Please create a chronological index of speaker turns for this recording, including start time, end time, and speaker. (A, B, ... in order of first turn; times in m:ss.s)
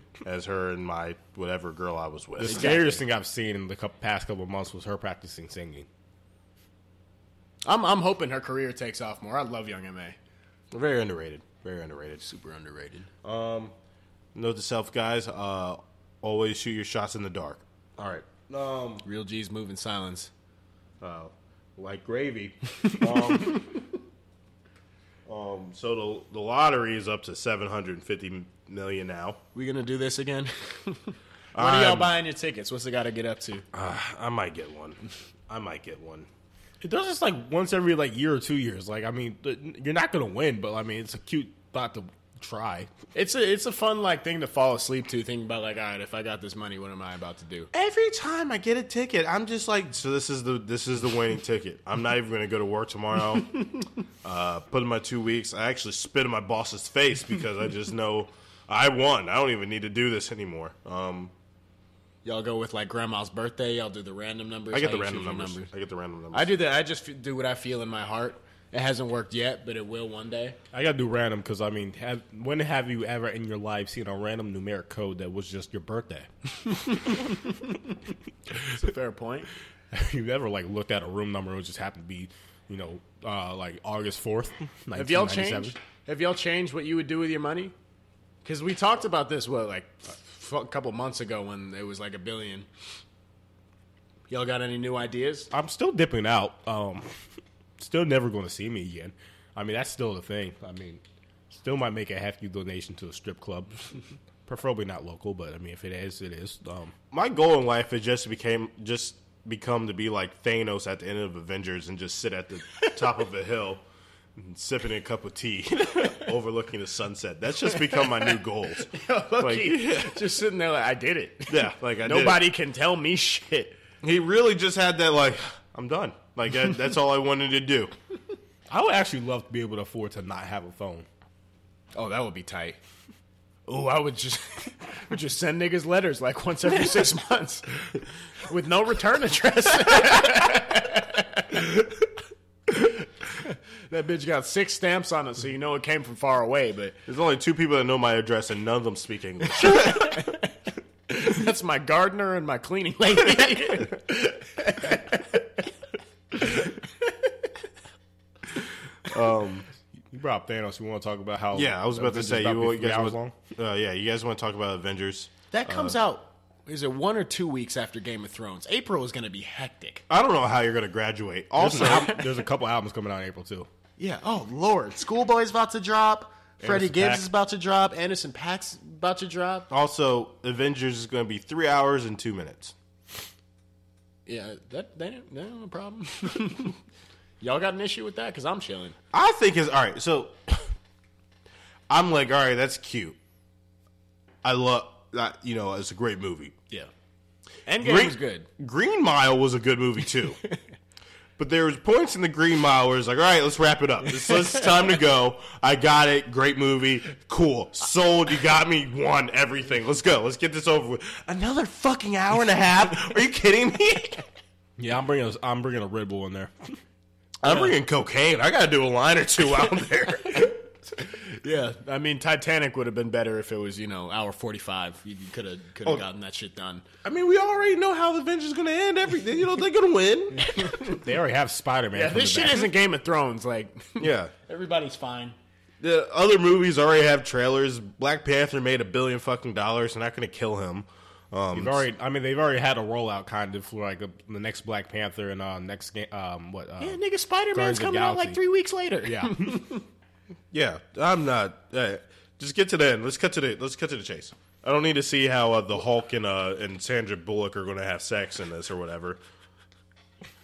0:00.2-0:03.0 A
0:02.4-0:05.9 B
0:02.4-0:02.8 C
0:07.6-0:10.2 C
0:10.7-0:12.2 A
0:12.2-0:13.1 C
0:13.2-0:13.7 A
0:14.3-0:19.0 A
0:19.0-0:20.3 C
0:21.0-0:23.8 A
0:25.3-0:29.4 A
0:29.5-0:33.6 C
0:31.5-0:32.2 A
0:33.7-0:36.3 A
0:36.8-0:42.9 B
0:43.1-0:47.7 C
0:47.7-0:53.5 A
0:54.2-1:01.3 A
1:02.2-1:05.7 C
1:04.7-1:06.6 A
1:06.3-1:10.6 C
1:10.7-1:16.3 B
1:16.8-1:17.8 C
1:18.7-1:19.5 C
1:19.9-1:25.7 B
1:24.9-1:27.7 C
1:28.4-1:32.7 C
1:34.3-1:35.5 C
1:35.5-1:37.1 B
1:37.8-1:46.9 B
1:47.1-1:53.8 A
1:52.8-1:53.0 C
1:54.4-2:00.3 A
1:57.8-1:58.4 C
1:58.9-2:03.8 C
2:01.5-2:02.5 A
2:04.0-2:07.9 A
2:08.7-2:11.0 B
2:11.9-2:12.8 C
2:13.7-2:17.6 C
2:18.5-2:22.0 C
2:22.7-2:27.0 C
2:27.1-2:30.2 A
2:29.5-2:30.5 C
2:31.1-2:35.7 C
2:36.3-2:37.3 C
2:39.1-2:39.6 A
2:40.1-2:43.4 B
2:41.5-2:46.0 A
2:45.5-2:50.0 C
2:50.1-2:52.2 A
2:51.6-2:53.7 B
2:51.7-2:52.2 C
2:54.0-2:59.7 C
2:56.6-2:57.3 A
2:59.7-3:02.7 A
3:04.3-3:06.7 C
3:07.4-3:09.0 C
3:09.1-3:10.6 A
3:11.9-3:13.2 A
3:14.4-3:16.6 A
3:17.7-3:18.4 C
3:17.8-3:20.4 A
3:21.4-3:34.2 A
3:24.3-3:24.6 C
3:34.8-3:36.8 B
3:37.4-3:40.5 A
3:37.4-3:37.7 C
3:41.2-3:46.8 C
3:47.0-3:50.6 A
3:50.4-3:51.0 C
3:50.9-3:52.7 B
3:51.9-3:55.4 C
3:54.0-3:54.3 A
3:55.8-4:01.8 A
4:01.5-4:07.0 B
4:06.8-4:09.8 C
4:07.5-4:08.4 B
4:09.0-4:09.6 B
4:10.5-4:19.2 A